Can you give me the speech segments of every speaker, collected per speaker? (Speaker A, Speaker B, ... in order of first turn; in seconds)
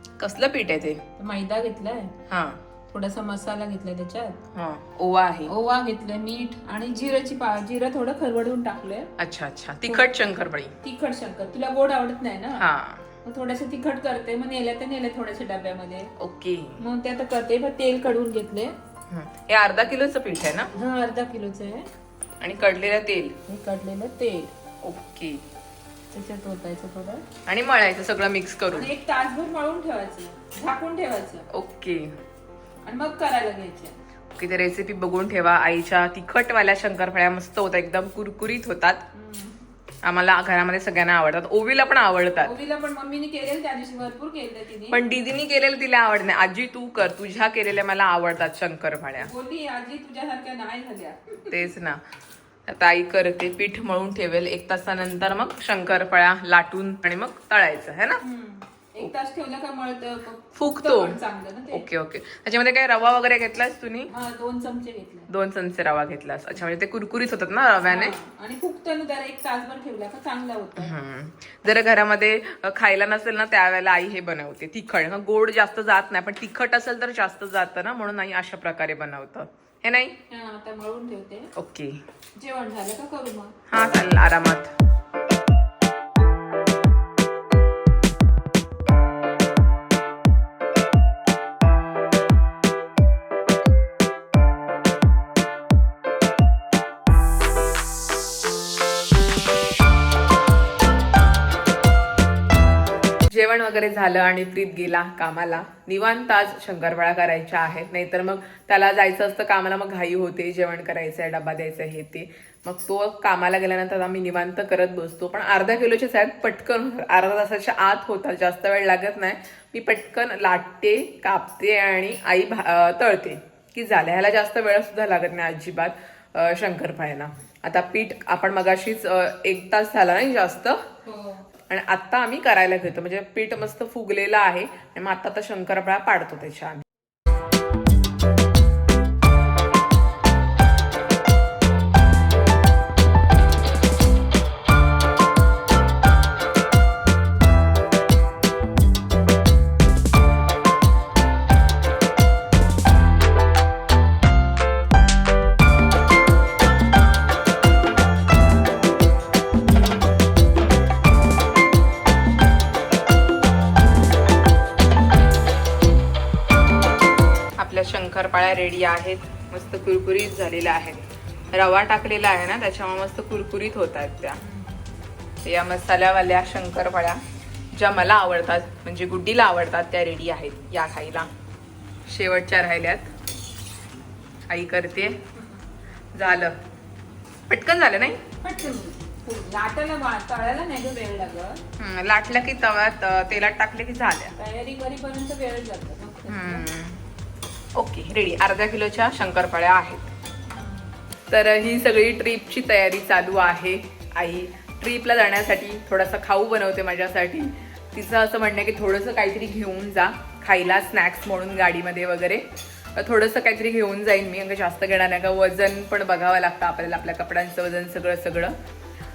Speaker A: 0.2-1.0, 2.3-2.6, 4.5-5.5, 9.2-10.7, 12.6-13.1, 16.2-16.8, 19.1-20.7, 22.4-23.4, 24.8-25.4, 27.4-28.9, 31.5-32.2, 34.3-39.0, 40.0-42.5, 44.9-49.3, 51.5-52.0, 52.7-58.2, 60.5-61.2, 61.7-64.1, 65.3-68.2, 70.8-80.2, 81.5-82.0, 83.7-84.7, 103.3-130.8, 131.7-136.8, 167.6-174.4, 175.4-177.2, 177.7-181.3, 182.1-183.1, 184.5-185.2, 186.1-186.6, 187.5-188.2, 191.8-194.3, 196.3-197.0, 197.7-200.1, 201.3-218.6
Speaker B: 1.1-2.1, 2.9-4.4, 5.5-9.1, 10.8-12.6, 13.2-16.1, 16.8-18.7, 20.7-21.9, 23.5-24.5, 26.1-27.2, 28.7-31.4, 32.8-33.9, 39.1-39.6, 42.4-45.0, 49.2-51.6, 58.2-61.8, 64.1-65.3, 67.8-70.9, 80.3-81.5, 82.4-83.5, 131.1-131.4, 174.4-174.8, 188.4-191.6, 194.3-196.7